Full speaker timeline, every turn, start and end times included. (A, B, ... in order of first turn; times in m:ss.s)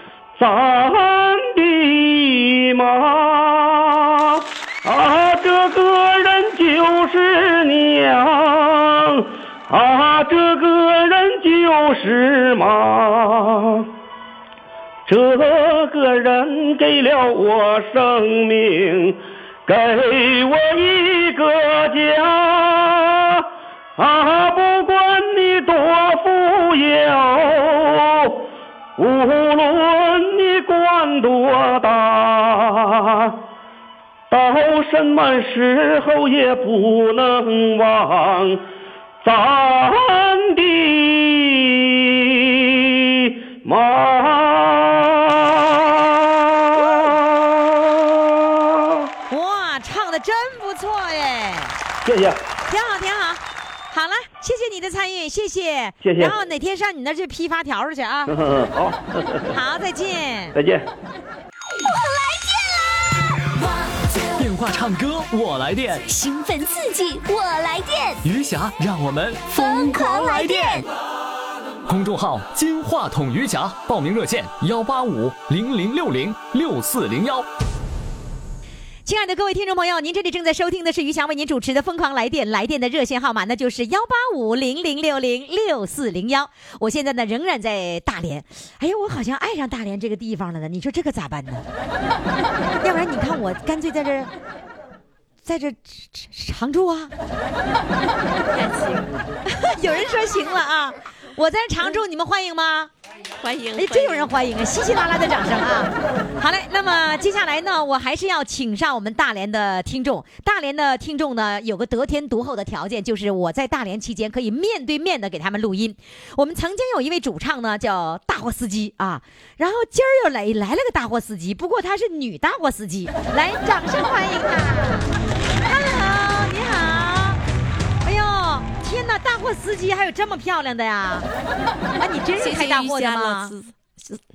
0:00.4-0:13.9 A
0:15.1-0:33.4 A
0:34.3-0:38.6 A
0:39.2-0:49.1 A
0:46.8-0:47.1 B
0:49.3-0:51.8 B
0:52.0-0:52.4 A
0:52.7-0:58.4 B
0:56.0-0:56.3 A
0:58.3-0:59.6 A
0:59.5-1:00.6 B
1:00.6-1:00.9 A
1:01.9-1:03.1 C
1:04.4-1:06.2 D
1:06.1-1:08.2 C
1:08.2-1:10.9 D
1:09.6-1:10.8 C
1:11.9-1:17.5 D
1:19.1-1:31.6 B
1:32.8-1:34.3 B
1:35.4-1:37.1 B
1:38.4-1:39.3 E
1:39.6-1:42.9 B
1:43.4-1:44.3 E
1:43.8-2:05.1 B
2:05.6-2:07.4 B
2:08.0-2:11.3 B
2:12.0-2:13.5 B
2:12.4-2:14.2 E